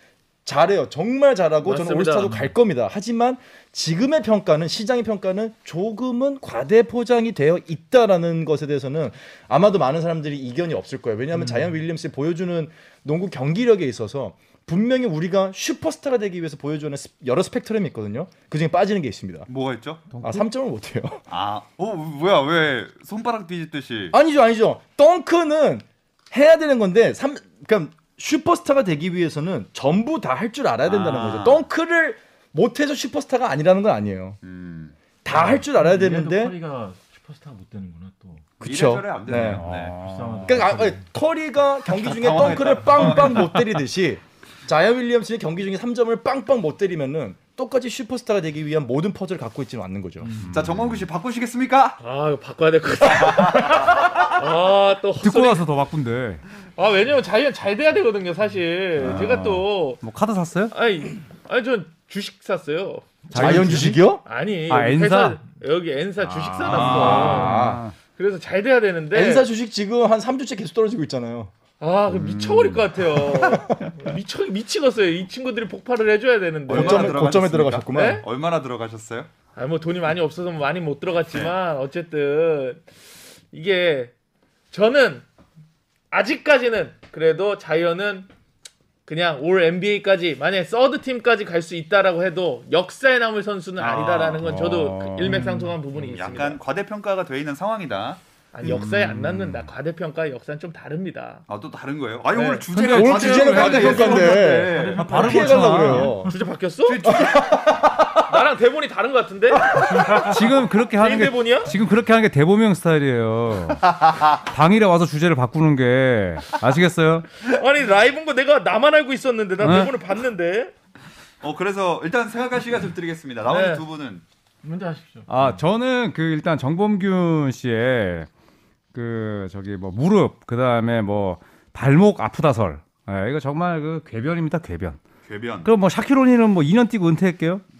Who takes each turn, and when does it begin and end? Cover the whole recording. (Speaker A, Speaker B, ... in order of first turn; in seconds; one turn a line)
Speaker A: 0.5-19.5
Speaker B: 1.6-2.4
Speaker C: 11.3-11.8
Speaker D: 19.5-20.1
Speaker E: 20.1-20.4
Speaker A: 20.2-21.2
Speaker D: 21.3-24.1
Speaker A: 24.1-34.4
Speaker D: 30.9-31.6
Speaker D: 34.4-35.0
Speaker A: 35.2-36.5
Speaker C: 35.3-38.5
Speaker A: 38.6-39.6
Speaker D: 38.6-40.0
Speaker E: 39.4-40.6
Speaker C: 39.8-41.1
Speaker A: 40.5-50.3
Speaker D: 41.9-43.5
Speaker E: 50.4-51.1
Speaker D: 50.5-52.0
Speaker B: 52.0-55.7
Speaker D: 53.2-53.9
Speaker E: 55.2-56.4
Speaker B: 56.8-60.0
Speaker E: 59.0-60.7
Speaker B: 60.7-69.5
Speaker E: 63.3-65.4
Speaker A: 63.3-64.2
Speaker D: 63.4-63.6
Speaker E: 66.2-68.0
Speaker D: 66.6-67.5
Speaker A: 66.7-67.8
Speaker A: 69.1-71.5
Speaker B: 71.8-77.3
Speaker E: 72.1-73.0
Speaker A: 73.3-73.8
Speaker A: 76.7-78.2
Speaker D: 76.7-79.3
Speaker B: 77.9-78.2
Speaker B: 79.5-82.9
Speaker B: 83.5-84.1
Speaker B: 84.7-85.2
Speaker B: 86.1-88.3
Speaker B: 89.0-96.6
Speaker D: 93.8-94.5
Speaker E: 94.4-95.6
Speaker C: 95.2-95.7
Speaker D: 96.1-98.9
Speaker B: 98.5-101.4
Speaker E: 98.7-99.6
Speaker D: 101.5-105.3
Speaker B: 102.3-102.7
Speaker E: 102.7-106.2
Speaker A: 102.9-106.3
Speaker B: 103.5-104.3
Speaker C: 104.7-106.3
Speaker B: 106.1-107.1
Speaker D: 106.8-107.7
Speaker A: 107.0-108.4
Speaker B: 108.2-110.3
Speaker E: 110.1-117.4
Speaker B: 110.9-111.7
Speaker D: 113.9-114.2
Speaker B: 117.4-120.7
Speaker E: 119.6-120.0
Speaker D: 121.4-124.2
Speaker B: 123.5-123.8
Speaker C: 124.6-125.6
Speaker E: 125.3-128.3
Speaker E: 128.9-135.0
Speaker D: 135.2-135.7
Speaker E: 135.6-137.6